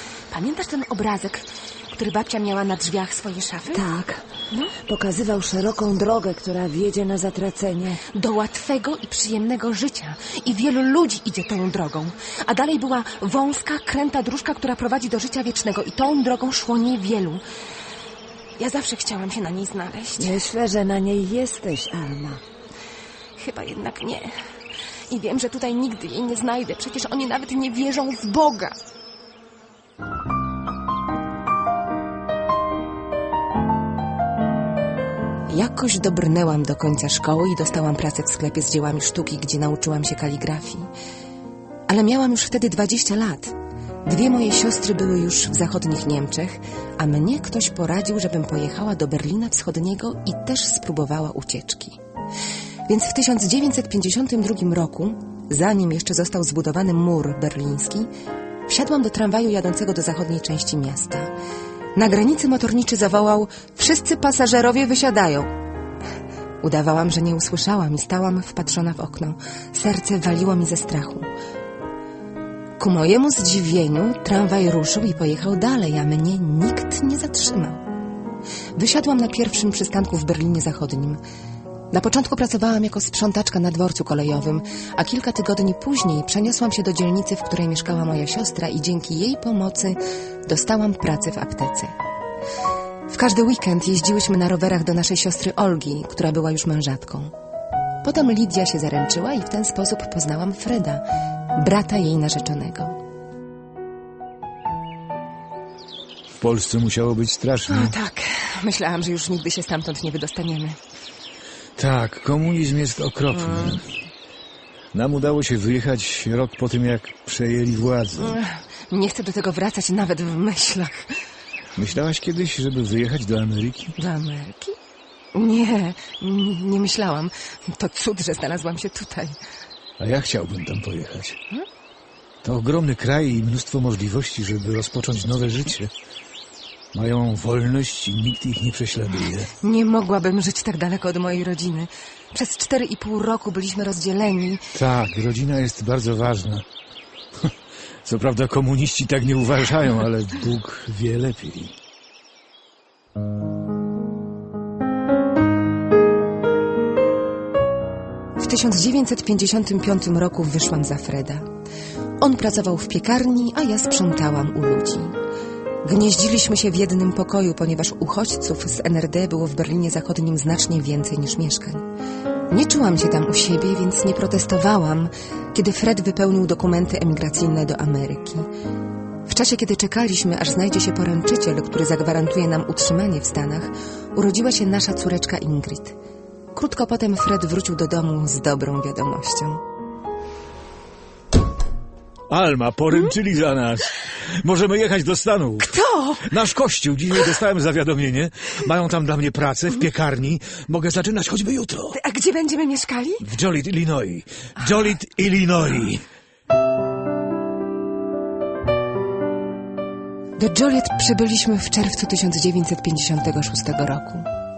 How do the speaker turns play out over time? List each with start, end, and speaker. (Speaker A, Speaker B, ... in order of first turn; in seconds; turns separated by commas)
Speaker A: 0.3-3.8, Speaker B: 3.7-4.3, Speaker B: 4.8-8.0, Speaker A: 8.1-17.4, Speaker A: 18.6-20.4, Speaker B: 20.2-22.4, Speaker A: 23.4-24.4, Speaker A: 25.1-28.8, Speaker A: 35.5-40.9, Speaker A: 41.9-43.5, Speaker A: 44.1-52.0, Speaker A: 52.9-58.1, Speaker A: 58.7-61.3, Speaker A: 62.0-65.5, Speaker A: 66.6-71.3, Speaker A: 72.8-77.8, Speaker A: 78.8-81.2, Speaker A: 81.9-91.9, Speaker A: 93.1-97.3, Speaker A: 98.0-103.0, Speaker C: 106.4-108.0, Speaker A: 107.7-110.8, Speaker C: 111.8-113.8, Speaker A: 113.3-113.8, Speaker C: 114.9-118.4, Speaker A: 118.2-121.2, Speaker C: 121.8-124.0, Speaker A: 124.0-124.8, Speaker A: 125.3-129.4, Speaker C: 130.0-131.4, Speaker C: 132.4-135.9, Speaker C: 136.9-139.5, Speaker A: 139.6-144.7, Speaker C: 144.8-146.7, Speaker C: 148.0-151.7, Speaker A: 158.4-161.5, Speaker A: 162.2-165.2, Speaker A: 165.8-171.8, Speaker A: 172.5-178.4, Speaker A: 179.3-186.0, Speaker A: 186.5-189.6, Speaker C: 192.3-202.0, Speaker A: 195.6-196.3, Speaker A: 201.9-203.2, Speaker C: 203.2-206.0, Speaker A: 210.4-214.3